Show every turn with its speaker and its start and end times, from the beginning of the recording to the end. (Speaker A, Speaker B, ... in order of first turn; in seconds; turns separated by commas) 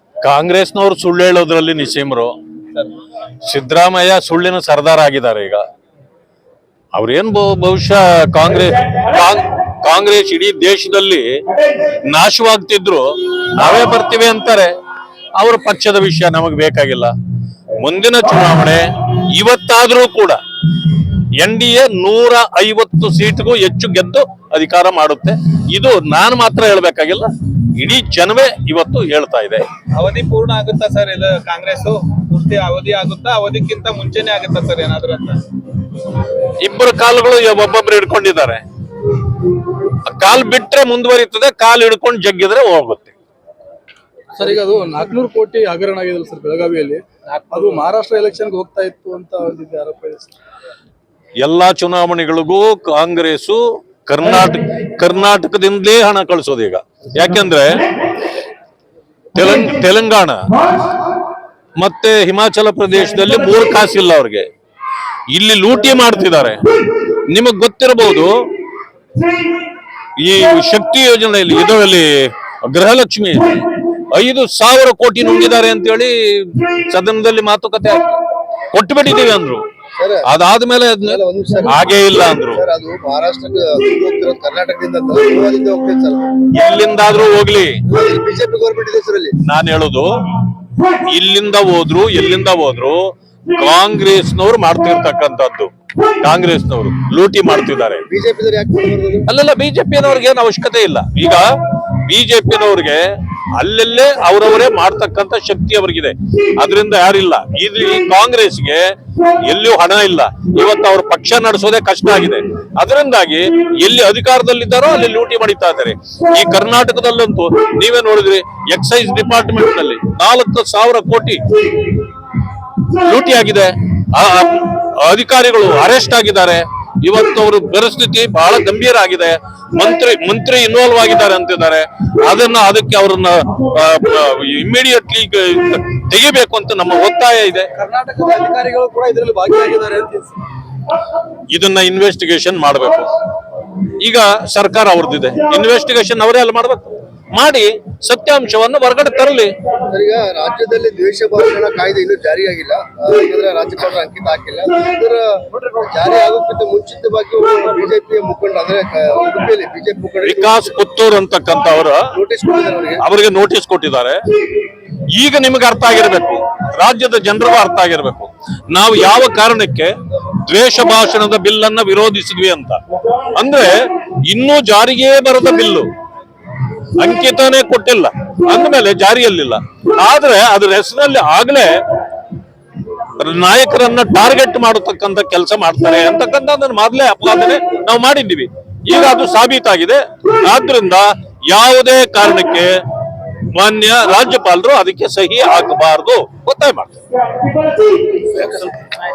Speaker A: 0.2-2.3, Speaker A: 3.4-5.6, Speaker A: 6.9-11.4, Speaker A: 12.1-14.7, Speaker A: 15.3-17.1, Speaker A: 17.8-20.4, Speaker A: 21.4-29.7, Speaker B: 29.9-35.4, Speaker A: 36.6-38.6, Speaker A: 39.9-43.1, Speaker C: 44.4-50.3, Speaker A: 51.4-57.9, Speaker A: 59.3-60.4, Speaker A: 61.8-64.5, Speaker A: 65.3-68.3, Speaker A: 70.2-78.2, Speaker A: 78.7-79.6, Speaker D: 80.0-80.3, Speaker A: 80.2-82.6, Speaker D: 81.1-81.9, Speaker D: 82.5-86.3, Speaker A: 86.5-87.8, Speaker D: 87.8-89.3, Speaker A: 89.4-90.1, Speaker A: 90.9-95.7, Speaker A: 96.2-98.0, Speaker D: 98.1-99.3, Speaker A: 99.3-121.4, Speaker A: 122.9-137.7, Speaker C: 137.8-140.3, Speaker A: 141.5-143.1, Speaker A: 144.0-149.5, Speaker D: 149.9-160.7, Speaker A: 160.2-162.1, Speaker D: 162.1-163.0, Speaker A: 163.0-164.2, Speaker A: 165.1-169.9, Speaker A: 170.4-172.8, Speaker A: 173.3-175.9, Speaker A: 177.0-181.8, Speaker A: 183.2-192.7, Speaker A: 193.5-196.9, Speaker D: 198.3-198.9